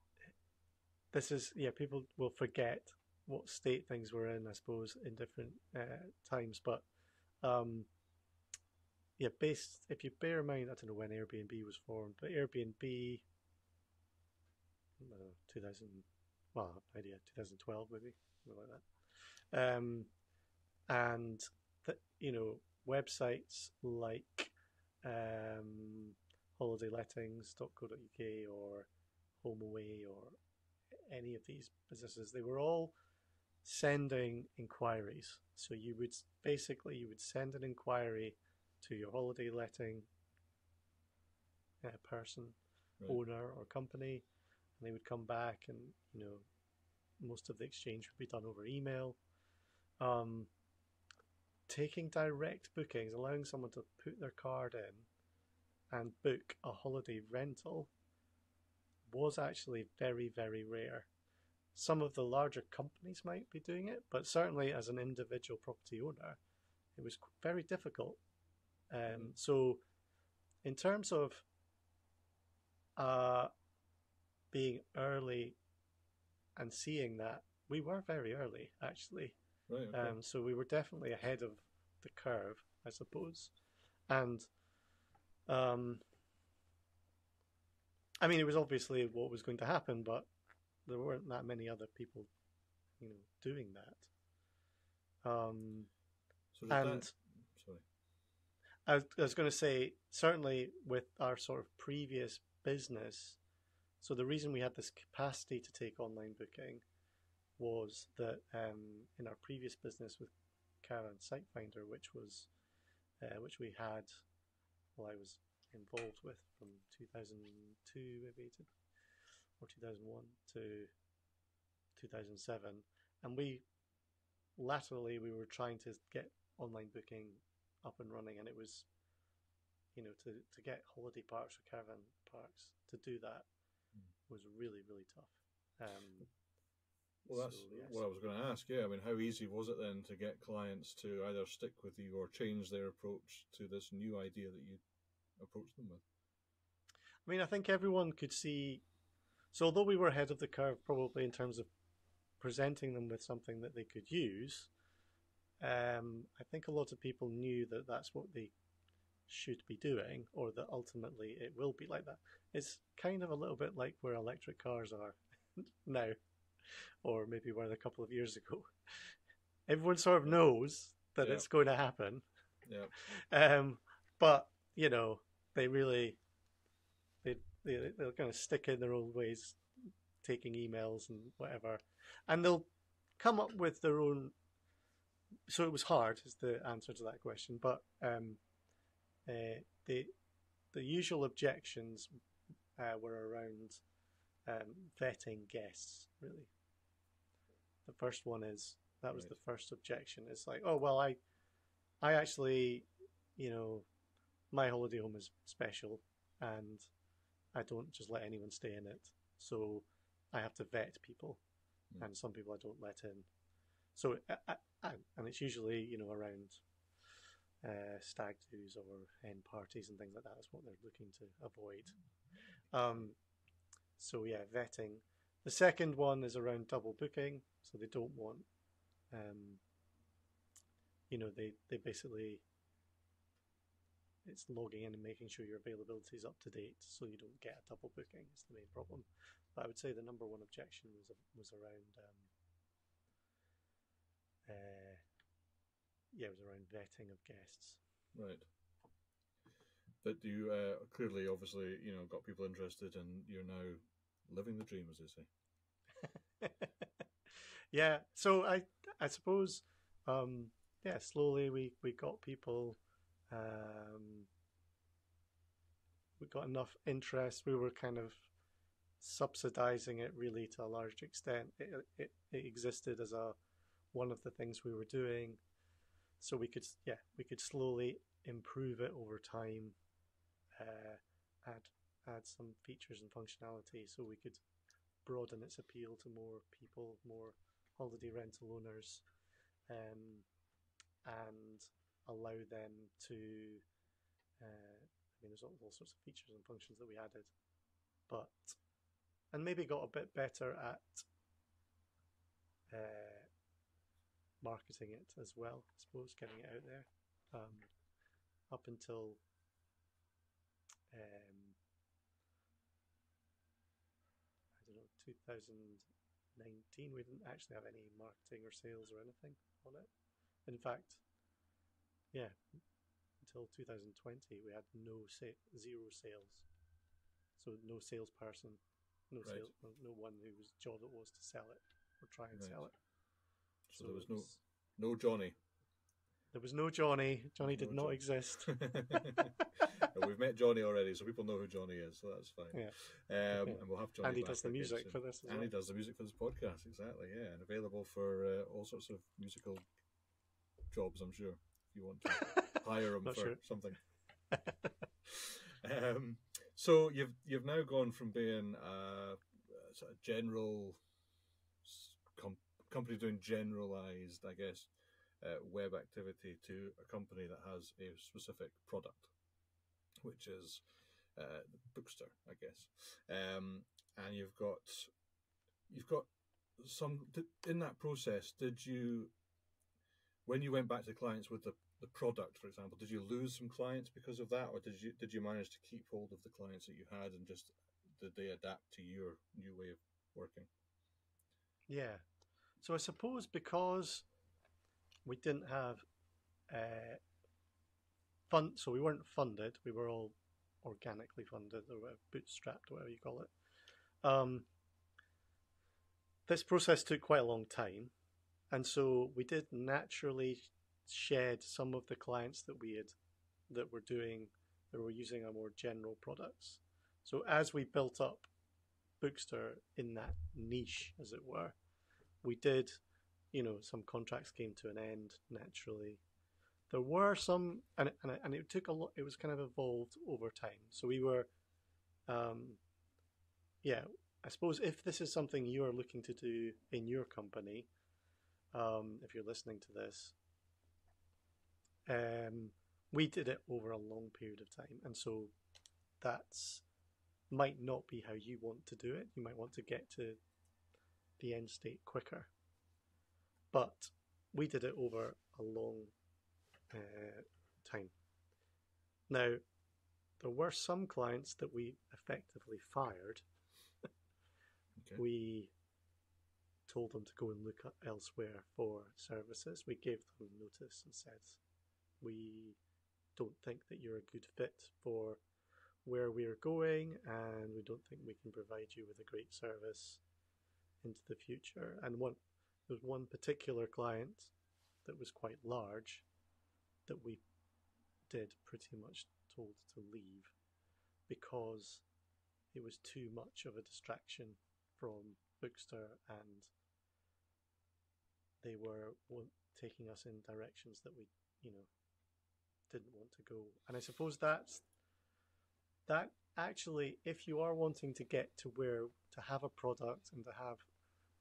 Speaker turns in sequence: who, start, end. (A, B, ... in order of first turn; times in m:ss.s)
0:01.1-0:06.8 A
0:07.4-0:07.9 A
0:09.2-0:13.2 A
0:15.0-0:20.1 A
0:20.9-0:28.9 A
0:29.4-0:30.4 A
0:31.1-0:33.0 A
0:33.6-0:40.1 A
0:41.8-0:44.2 A
0:44.8-0:46.4 A
0:47.2-0:49.2 A
0:50.0-0:50.5 A
0:51.7-0:55.1 A
0:55.9-0:57.9 A
0:59.1-1:01.1 A
1:01.7-1:06.4 A
1:07.0-1:08.2 A
1:08.9-1:09.8 A
1:10.6-1:11.4 A
1:13.0-1:13.5 A
1:14.5-1:15.6 A
1:16.6-1:19.4 A
1:19.7-1:20.1 B
1:19.9-1:23.5 A
1:24.1-1:24.5 A
1:25.5-1:26.0 A
1:28.2-1:30.3 A
1:30.8-1:32.3 A
1:33.0-1:34.1 A
1:35.2-1:35.9 A
1:36.5-1:37.8 B
1:36.7-1:37.1 A
1:38.8-1:43.4 A
1:44.0-1:46.8 A
1:47.6-1:50.3 A
1:50.8-1:52.5 A
1:53.2-1:54.2 A
1:55.0-1:58.7 A
1:59.6-2:00.9 A
2:02.0-2:03.6 A
2:04.6-2:08.9 A
2:09.9-2:13.4 A
2:14.3-2:16.3 A
2:17.2-2:18.0 A
2:17.2-2:24.8 B
2:25.4-2:26.0 B
2:27.2-2:28.8 A
2:29.5-2:31.7 A
2:32.4-2:34.7 A
2:35.6-2:38.5 A
2:39.3-2:46.2 A
2:46.7-2:49.1 A
2:49.7-2:52.2 A
2:51.2-2:51.5 B
2:52.6-2:52.9 B
2:52.9-2:56.2 A
2:57.2-2:59.6 A
3:00.2-3:02.7 A
3:03.2-3:04.3 A
3:05.5-3:08.4 A
3:09.2-3:10.1 A
3:10.7-3:12.1 A
3:12.8-3:13.8 A
3:14.4-3:16.5 A
3:17.8-3:21.2 A
3:22.0-3:23.8 A
3:24.5-3:26.9 A
3:27.5-3:31.4 A
3:32.0-3:33.3 A
3:33.9-3:36.6 A
3:37.6-3:42.0 A
3:42.7-3:43.2 A
3:44.0-3:48.5 A
3:49.1-3:49.6 A
3:51.1-3:52.4 A
3:54.2-4:02.3 A
4:04.4-4:05.0 A
4:06.1-4:07.8 A
4:08.1-4:08.5 B
4:10.0-4:15.3 B
4:16.4-4:22.8 A
4:23.3-4:24.3 A
4:26.2-4:28.2 A
4:29.0-4:33.4 A
4:33.9-4:35.4 A
4:36.2-4:39.8 A
4:40.6-4:44.4 A
4:45.0-4:49.0 A
4:49.7-4:50.2 A
4:51.0-4:53.6 A
4:54.4-4:57.3 A
4:58.1-4:58.6 A
4:59.3-5:01.0 A
5:02.7-5:03.3 A
5:04.4-5:07.7 A
5:08.5-5:09.2 A
5:10.9-5:11.6 A
5:14.6-5:19.9 A
5:20.4-5:21.0 A
5:23.2-5:26.5 A
5:27.4-5:28.6 A
5:29.1-5:32.7 A
5:32.3-5:32.6 B
5:33.7-5:35.4 B
5:33.7-5:34.4 A
5:36.3-5:39.6 A
5:37.4-5:49.6 B
5:43.3-5:45.5 A
5:50.7-5:53.8 B
5:52.3-5:53.4 A
5:54.3-5:54.7 A
5:55.0-6:00.8 B
6:01.6-6:04.7 B
6:05.2-6:09.1 B
6:10.0-6:10.6 B
6:11.1-6:14.9 B
6:15.7-6:19.1 B
6:20.2-6:30.5 B
6:31.7-6:32.0 A
6:32.6-6:34.1 A
6:35.0-6:35.8 A
6:36.5-6:37.0 A
6:38.3-6:43.3 A
6:44.0-6:44.5 A
6:46.3-6:47.9 A
6:48.5-6:53.0 A
6:53.5-6:58.3 A
6:59.0-7:01.5 A
7:02.2-7:02.8 A
7:03.3-7:06.0 A
7:06.7-7:11.3 A
7:12.1-7:12.6 A
7:13.6-7:17.7 A
7:18.5-7:20.1 A
7:21.9-7:25.3 A
7:26.0-7:26.6 A
7:27.3-7:30.2 A
7:31.2-7:32.3 A
7:33.5-7:35.9 A
7:36.7-7:37.9 A
7:39.1-7:39.4 A
7:40.2-7:43.2 A
7:45.0-7:45.5 A
7:46.7-7:51.4 A
7:52.0-7:52.6 A
7:53.2-7:55.2 A
7:55.8-8:00.0 A
8:00.8-8:04.3 A
8:04.8-8:06.0 A
8:06.9-8:07.2 A
8:08.1-8:10.3 A
8:11.1-8:11.8 A
8:12.5-8:16.5 A
8:18.4-8:21.7 A
8:22.7-8:24.6 A
8:25.9-8:30.6 A